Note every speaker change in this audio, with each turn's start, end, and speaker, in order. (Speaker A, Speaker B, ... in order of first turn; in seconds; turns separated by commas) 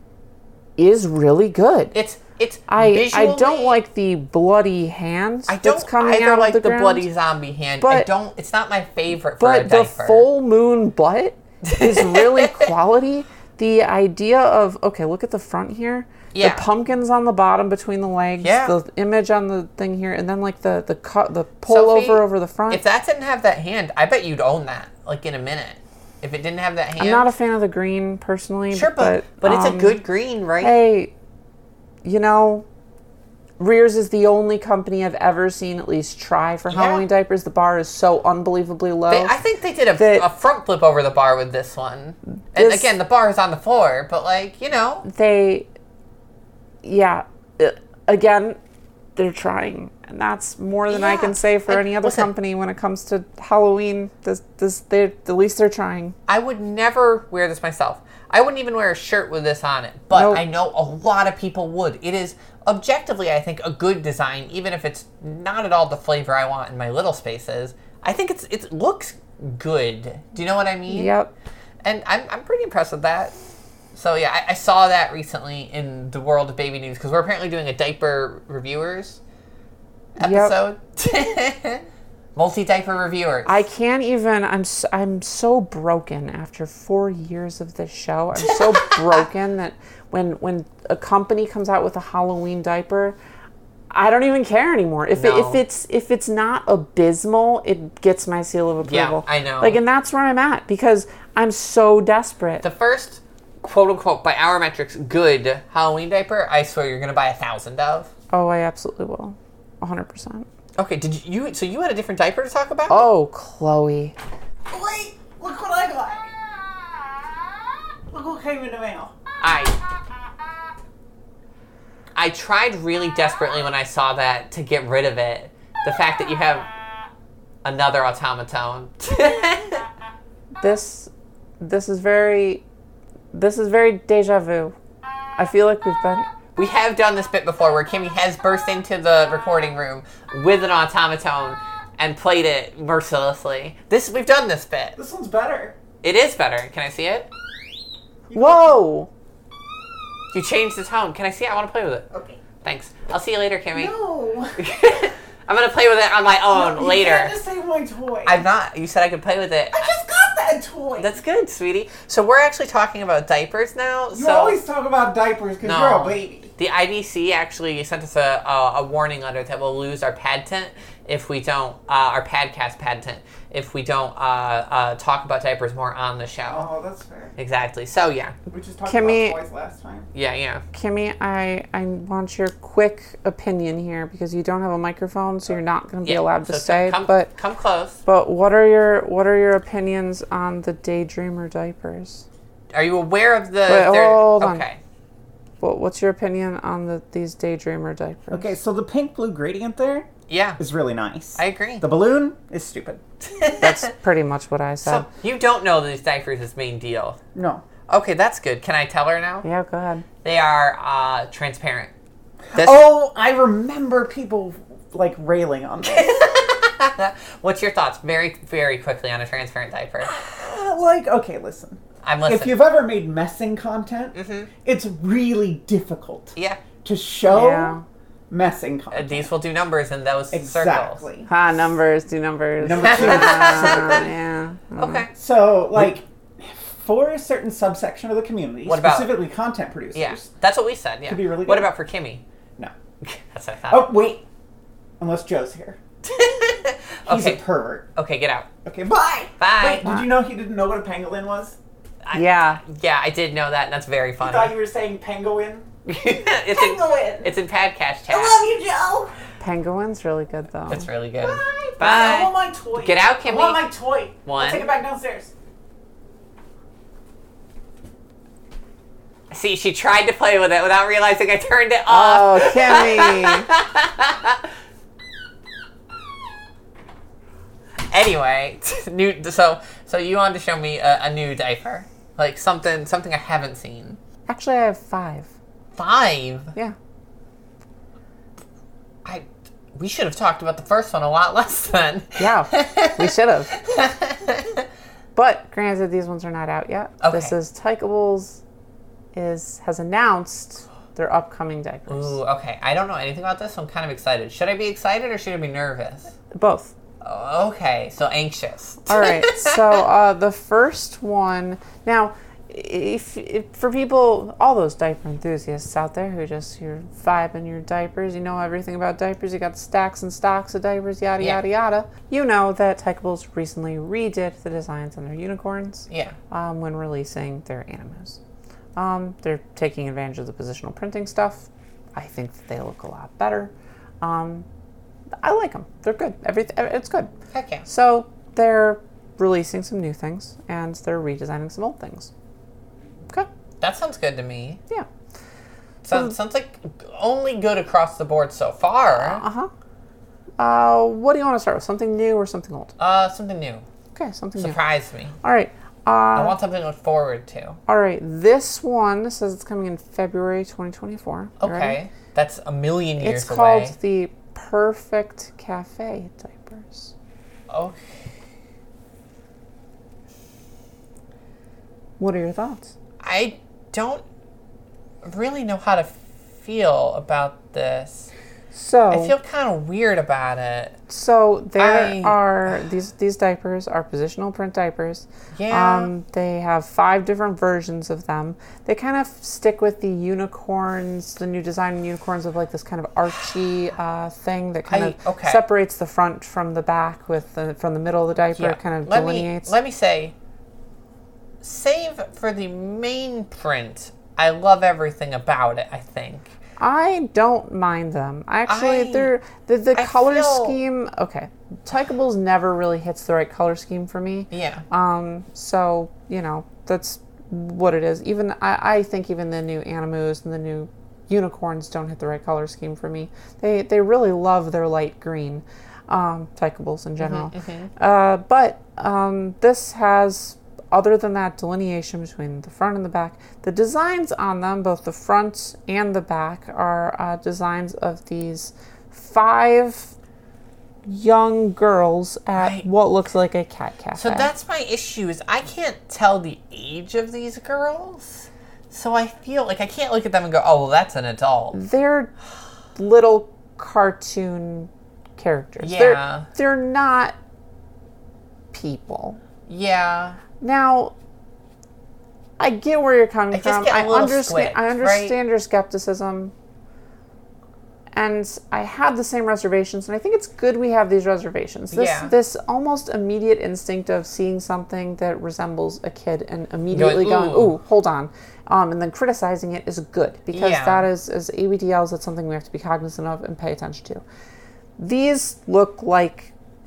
Speaker A: 0.8-1.9, Speaker B: 1.9-3.8, Speaker A: 2.7-7.0, Speaker B: 5.5-10.3, Speaker A: 7.8-8.1, Speaker A: 9.4-22.8, Speaker B: 11.6-12.7, Speaker B: 16.3-16.6, Speaker B: 18.4-18.7, Speaker B: 21.7-27.3, Speaker A: 27.0-30.0, Speaker B: 28.7-30.7, Speaker A: 30.6-31.1, Speaker A: 32.0-32.6, Speaker A: 33.6-39.4, Speaker B: 36.7-37.0, Speaker B: 39.1-45.0, Speaker A: 40.0-40.3, Speaker A: 42.5-42.9, Speaker A: 45.0-45.7, Speaker A: 46.8-48.6, Speaker A: 49.1-56.1, Speaker B: 50.9-52.3, Speaker B: 56.3-71.1, Speaker A: 60.1-60.4, Speaker A: 70.9-71.3, Speaker B: 71.8-73.3, Speaker B: 73.9-79.2, Speaker B: 80.2-81.8, Speaker A: 80.2-80.5, Speaker B: 82.3-83.6, Speaker A: 83.5-93.2, Speaker B: 88.3-89.3, Speaker A: 93.9-102.6, Speaker B: 95.1-95.6, Speaker B: 98.8-99.8, Speaker B: 102.6-108.1, Speaker A: 108.3-110.5, Speaker B: 110.8-113.1, Speaker A: 112.9-114.2, Speaker C: 114.7-116.3, Speaker C: 118.1-119.1, Speaker B: 119.4-119.8, Speaker B: 122.1-126.7, Speaker B: 127.6-129.9, Speaker A: 130.6-132.6, Speaker A: 133.3-134.7, Speaker A: 135.4-136.3, Speaker B: 136.6-144.9, Speaker C: 144.9-145.8, Speaker B: 146.0-147.3, Speaker A: 148.3-149.1, Speaker C: 148.3-148.7, Speaker B: 150.3-153.9, Speaker C: 153.7-154.6, Speaker B: 154.6-157.4, Speaker C: 156.4-158.4, Speaker B: 158.2-159.9, Speaker C: 159.7-161.1, Speaker B: 161.0-164.6, Speaker C: 164.1-166.5, Speaker B: 165.6-176.7, Speaker C: 176.5-177.3, Speaker B: 177.4-178.3, Speaker C: 178.5-180.1, Speaker A: 178.8-179.4, Speaker B: 180.1-180.6, Speaker A: 180.7-187.3, Speaker B: 186.0-188.0, Speaker A: 188.0-192.2, Speaker B: 192.7-194.8, Speaker A: 193.7-194.6, Speaker A: 195.6-198.5, Speaker C: 198.3-203.0, Speaker B: 200.3-200.6, Speaker B: 201.3-201.8, Speaker B: 203.2-203.9, Speaker A: 203.6-205.1, Speaker B: 204.8-207.2, Speaker C: 207.3-207.6, Speaker B: 207.9-209.4, Speaker A: 209.4-210.0, Speaker B: 210.2-211.9, Speaker C: 212.5-216.2, Speaker B: 212.5-212.8, Speaker B: 215.8-220.1, Speaker C: 220.0-227.8, Speaker B: 222.0-222.6, Speaker B: 224.1-224.5, Speaker B: 226.3-226.6, Speaker A: 227.3-227.8, Speaker C: 228.3-229.3, Speaker B: 228.9-231.0, Speaker C: 230.3-231.3, Speaker A: 231.3-235.1, Speaker C: 232.6-234.1, Speaker B: 232.8-234.1, Speaker B: 234.8-235.1, Speaker C: 235.1-240.3, Speaker B: 238.7-239.2, Speaker B: 239.9-242.2, Speaker C: 241.0-241.7, Speaker B: 243.0-243.9, Speaker C: 243.7-244.2, Speaker C: 245.0-245.8, Speaker B: 246.0-247.4, Speaker C: 247.0-247.9, Speaker B: 247.9-248.5, Speaker C: 248.6-251.6, Speaker B: 249.4-249.8, Speaker B: 252.0-254.5, Speaker A: 252.1-252.6, Speaker C: 254.2-257.3, Speaker B: 255.8-258.4, Speaker C: 258.1-259.1, Speaker A: 259.4-260.9, Speaker B: 260.7-263.6, Speaker C: 261.2-265.3, Speaker B: 264.2-264.7, Speaker B: 269.3-274.5, Speaker A: 271.9-273.5, Speaker B: 277.8-284.0, Speaker A: 284.3-285.3, Speaker B: 285.7-286.5, Speaker B: 289.0-294.7, Speaker A: 292.2-293.5, Speaker A: 295.1-298.4, Speaker B: 297.0-297.3, Speaker A: 299.1-302.2, Speaker B: 301.9-306.1, Speaker A: 306.3-306.7, Speaker B: 307.0-309.8, Speaker A: 308.9-328.2, Speaker B: 325.9-326.1, Speaker A: 328.8-334.4, Speaker A: 335.2-337.1, Speaker B: 337.3-337.6, Speaker A: 337.6-342.1, Speaker B: 343.6-344.6, Speaker B: 345.8-349.2, Speaker A: 348.9-349.5, Speaker A: 350.4-352.7, Speaker B: 352.8-353.6, Speaker A: 353.9-354.6, Speaker B: 354.4-355.1, Speaker A: 355.2-356.4, Speaker B: 356.1-357.6, Speaker A: 357.7-361.8, Speaker B: 361.4-363.7, Speaker A: 363.0-366.9, Speaker B: 367.5-368.1, Speaker A: 372.0-372.7, Speaker B: 373.0-374.0, Speaker B: 375.0-378.1, Speaker A: 378.5-379.1, Speaker B: 378.9-380.8, Speaker A: 380.9-399.5, Speaker B: 381.6-382.6, Speaker B: 385.3-385.9, Speaker B: 394.7-395.4, Speaker B: 398.4-400.1, Speaker B: 401.4-406.3, Speaker A: 406.6-439.9, Speaker B: 408.5-409.1, Speaker B: 409.7-410.6, Speaker B: 414.3-414.6, Speaker B: 427.0-427.7, Speaker A: 440.9-444.3, Speaker B: 442.4-442.6, Speaker B: 443.9-451.6, Speaker A: 451.5-452.1, Speaker A: 452.7-457.1, Speaker B: 455.6-456.3, Speaker A: 458.5-459.2, Speaker B: 459.4-460.2, Speaker A: 460.4-460.9, Speaker A: 462.4-466.3, Speaker B: 463.3-465.1, Speaker A: 467.9-484.0, Speaker B: 471.7-472.1, Speaker B: 476.7-477.5, Speaker B: 480.3-480.9, Speaker A: 484.8-486.3